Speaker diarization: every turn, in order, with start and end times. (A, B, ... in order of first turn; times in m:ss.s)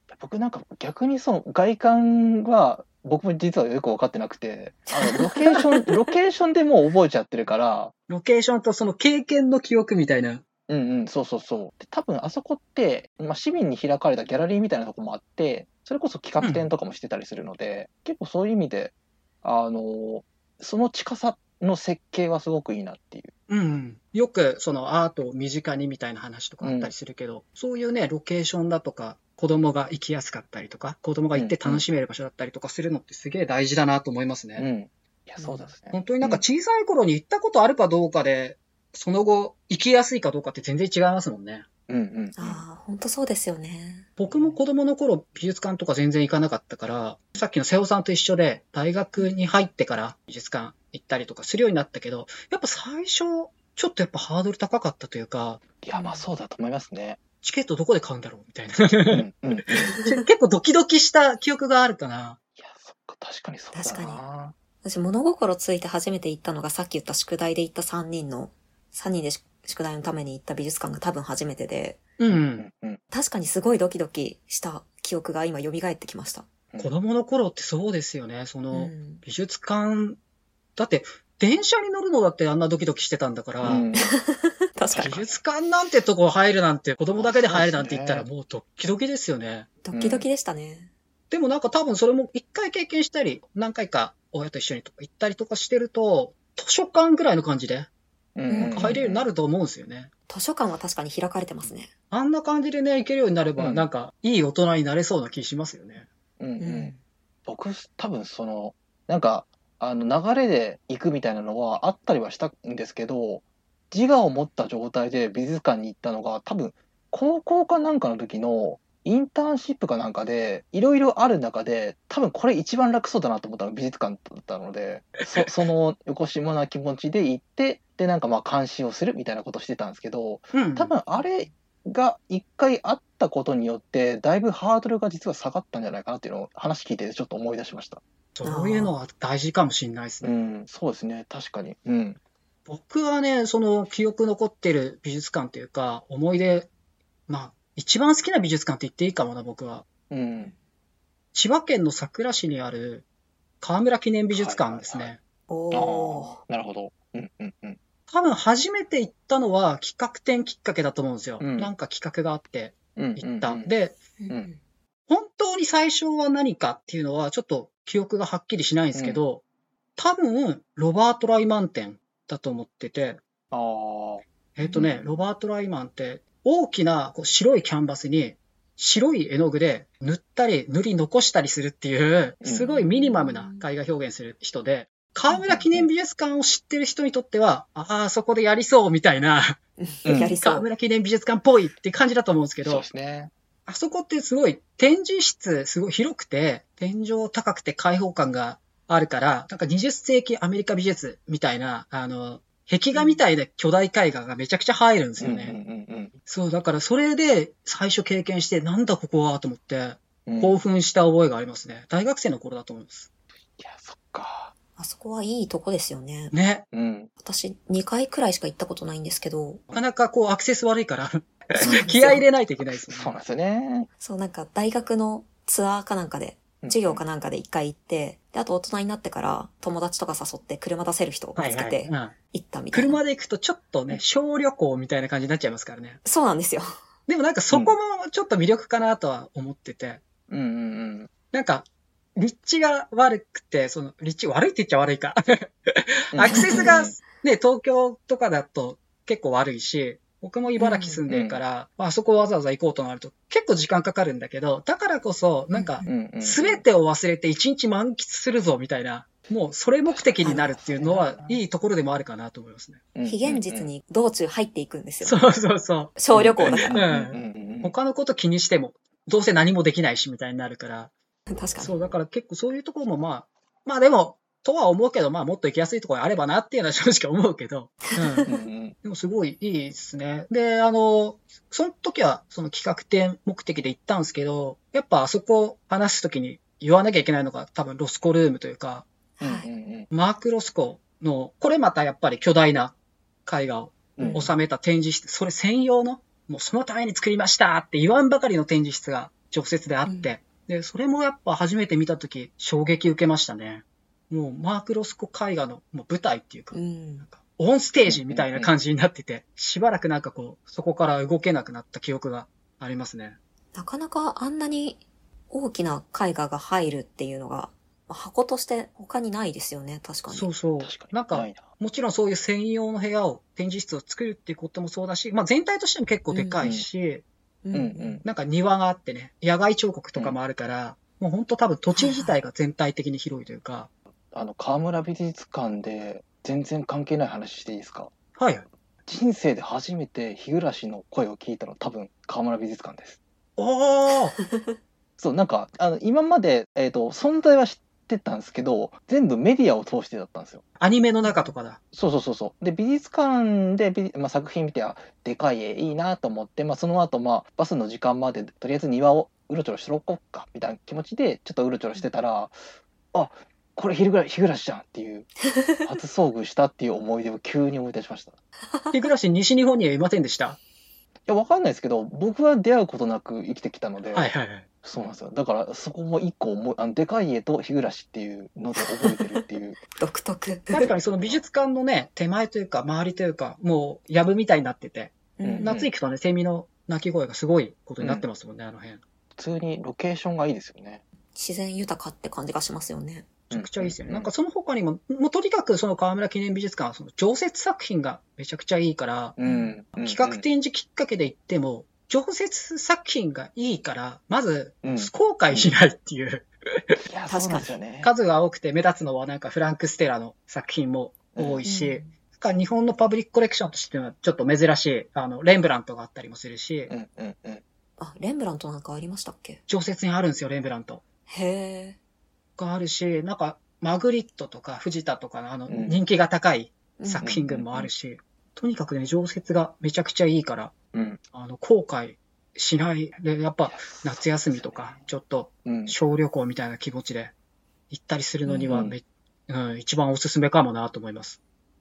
0:00.1-0:07.9 A
0:04.9-0:05.9 B
0:08.1-0:10.4 C
0:10.7-0:23.3 A
0:16.4-0:16.7 C
0:23.5-0:34.7 C
0:26.6-0:26.9 A
0:31.3-0:31.8 A
0:34.6-0:36.4 A
0:35.4-0:35.7 B
0:35.9-0:41.6 C
0:41.9-0:42.6 A
0:42.4-0:44.1 B
0:44.2-0:55.6 C
0:55.8-0:57.2 A
0:55.9-0:56.2 B
0:57.4-1:02.4 C
0:59.1-0:59.9 A
1:02.6-1:04.5 A
1:03.7-1:04.2 B
1:04.8-1:12.0 B
1:12.2-1:12.7 C
1:12.6-1:13.0 A
1:13.1-1:16.5 B
1:16.8-1:20.2 C
1:18.7-1:19.2 B
1:20.8-1:23.9 C
1:23.6-1:24.0 A
1:23.9-1:25.2 B
1:25.0-1:29.7 C
1:27.1-1:28.2 A
1:29.8-1:30.9 B
1:29.9-1:30.2 A
1:31.3-1:37.9 C
1:38.4-1:39.3 A
1:38.5-1:39.0 B
1:38.6-1:40.1 C
1:40.3-1:41.9 B
1:42.1-1:46.1 C
1:43.6-1:43.8 A
1:46.4-1:46.9 A
1:46.6-1:47.0 B
1:47.4-2:18.0 A
2:05.2-2:05.5 C
2:10.5-2:10.9 C
2:18.3-2:20.3 C
2:18.4-2:18.9 B
2:20.2-2:22.2 A
2:22.7-2:26.7 C
2:27.3-2:29.8 C
2:30.1-2:30.5 A
2:31.3-2:33.0 C
2:33.6-2:35.2 C
2:34.3-2:35.1 A
2:35.5-2:36.4 B
2:35.7-2:37.8 A
2:38.1-2:44.0 C
2:41.4-2:41.7 A
2:43.0-2:43.7 A
2:44.2-2:44.6 B
2:45.1-2:49.4 C
2:48.9-2:49.2 A
2:50.0-2:53.2 C
2:53.5-2:54.2 A
2:54.5-3:09.6 C
2:54.6-2:54.9 B
3:02.4-3:02.8 A
3:02.8-3:03.6 B
3:05.4-3:05.9 A
3:09.8-3:10.7 B
3:10.0-3:10.4 A
3:10.3-3:12.8 C
3:12.6-3:13.3 A
3:13.7-3:25.6 C
3:22.9-3:23.2 B
3:25.2-3:26.1 A
3:26.3-3:33.1 C
3:30.2-3:30.6 A
3:33.6-3:34.5 A
3:34.8-3:36.3 B
3:36.3-3:36.6 C
3:36.7-3:37.1 A
3:37.2-3:39.6 B
3:39.7-3:43.1 C
3:41.6-3:42.2 B
3:42.7-3:43.9 A
3:44.0-3:53.0 B
3:46.6-3:47.0 A
3:51.4-3:52.1 C
3:52.7-3:56.0 C
3:56.0-3:56.7 B
3:57.1-4:00.0 C
3:57.5-3:57.8 A
4:00.3-4:01.1 A
4:01.3-4:22.8 C
4:06.1-4:07.0 A
4:06.3-4:06.7 B
4:10.6-4:11.0 B
4:11.1-4:11.4 A
4:15.5-4:15.9 B
4:15.8-4:16.6 A
4:19.8-4:21.4 A
4:22.9-4:23.7 A
4:23.0-4:25.2 B
4:25.0-4:30.9 C
4:26.0-4:26.9 B
4:26.1-4:27.7 A
4:31.3-4:31.8 B
4:31.6-4:38.3 C
4:37.9-4:38.3 B
4:38.3-4:38.8 A
4:38.8-4:48.8 C
4:49.2-4:49.5 B
4:49.2-4:49.9 A
4:49.9-5:13.2 C
4:54.0-4:54.4 A
4:54.0-4:54.3 B
5:06.5-5:07.1 B
5:07.8-5:08.5 A
5:13.5-5:20.3 B
5:20.1-5:27.0 C
5:20.6-5:21.5 A
5:26.1-5:26.4 B
5:26.4-5:26.6 A
5:27.4-5:28.0 B
5:27.5-5:28.0 A
5:28.0-5:33.7 C
5:31.7-5:32.2 B
5:34.1-5:37.9 A
5:38.2-5:38.4 C
5:38.8-5:43.0 A
5:43.4-5:44.2 C
5:44.2-5:44.5 B
5:45.0-5:50.4 A
5:50.6-5:51.6 C
5:51.0-5:51.3 B
5:51.7-6:02.4 A
6:02.9-6:05.1 A
6:05.3-6:05.6 B
6:05.6-6:08.2 A
6:08.7-6:10.4 C
6:11.1-6:19.6 A
6:13.9-6:14.4 C
6:18.6-6:19.2 B
6:19.8-6:20.7 B
6:20.5-6:28.8 C
6:20.6-6:21.2 A
6:25.2-6:25.5 B
6:25.2-6:25.7 A
6:27.8-6:28.0 A
6:29.2-6:30.8 A
6:31.1-6:33.1 B
6:33.3-6:39.2 C
6:33.3-6:34.1 A
6:39.2-6:40.2 A
6:39.2-6:39.5 B
6:39.8-6:46.8 C
6:44.6-6:45.5 A
6:46.9-6:47.9 A
6:47.1-6:47.6 B
6:47.8-6:56.7 C
6:51.1-6:51.4 A
6:51.4-6:51.9 B
6:56.7-6:57.4 A
6:57.8-6:59.4 B
6:59.5-7:00.8 C
7:01.1-7:01.8 B
7:02.4-7:10.5 C
7:05.5-7:05.8 A
7:06.8-7:07.1 B
7:07.0-7:07.7 A
7:10.7-7:11.0 A
7:11.1-7:17.1 C
7:13.4-7:14.9 A
7:15.4-7:15.8 A
7:17.7-7:21.2 C
7:18.2-7:18.6 B
7:18.5-7:18.7 A